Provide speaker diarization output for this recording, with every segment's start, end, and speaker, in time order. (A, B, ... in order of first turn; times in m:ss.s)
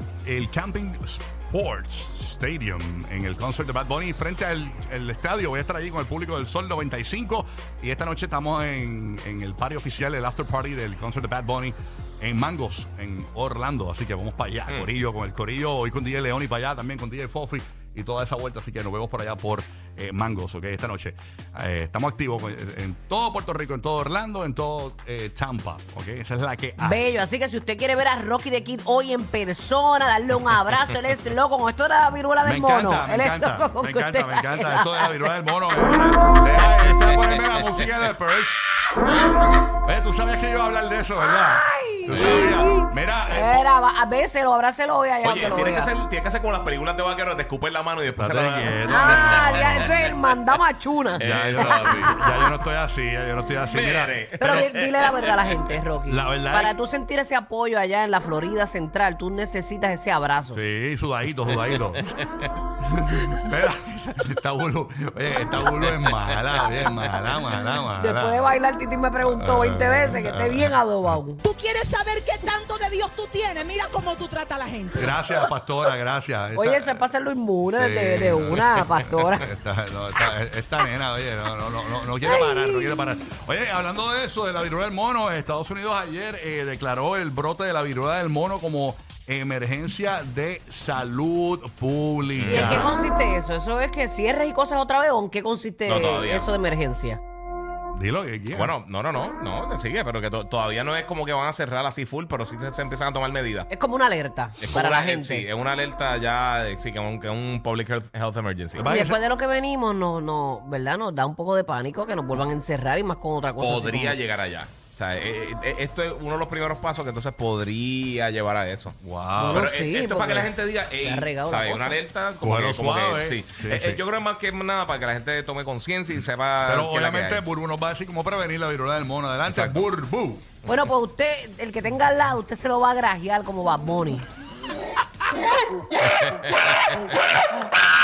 0:00.2-0:27.0 A
0:26.8-0:35.3 B
0:32.4-0:38.8 A
0:39.8-0:43.7 A
0:41.3-0:45.9 B
0:42.1-0:42.4 C
0:45.2-0:49.9 C
0:48.2-0:50.2 A
0:48.9-0:52.3 B
0:51.2-0:52.2 C
0:51.2-0:54.6 A
0:53.7-0:55.2 C
0:54.4-1:00.6 B
0:56.1-0:56.7 A
1:00.5-1:02.2 A
1:02.8-1:08.5 A
1:05.8-1:06.3 C
1:08.0-1:11.4 B
1:09.3-1:10.8 A
1:11.4-1:15.2 D
1:15.0-1:17.0 A
1:16.6-1:19.5 B
1:17.8-1:33.0 A
1:22.3-1:22.9 B
1:32.4-1:32.9 C
1:32.5-1:37.2 B
1:35.9-1:36.5 C
1:37.9-1:38.7 A
1:38.5-1:43.7 C
1:43.7-1:45.5 B
1:44.6-1:48.9 C
1:48.8-1:49.2 A
1:48.9-1:54.2 B
1:53.6-1:59.0 C
1:59.0-1:59.7 A
1:59.4-2:02.0 B
1:59.5-2:07.4 C
2:02.4-2:04.0 A
2:06.6-2:10.4 A
2:09.5-2:09.8 C
2:10.7-2:14.3 B
2:16.1-2:17.0 C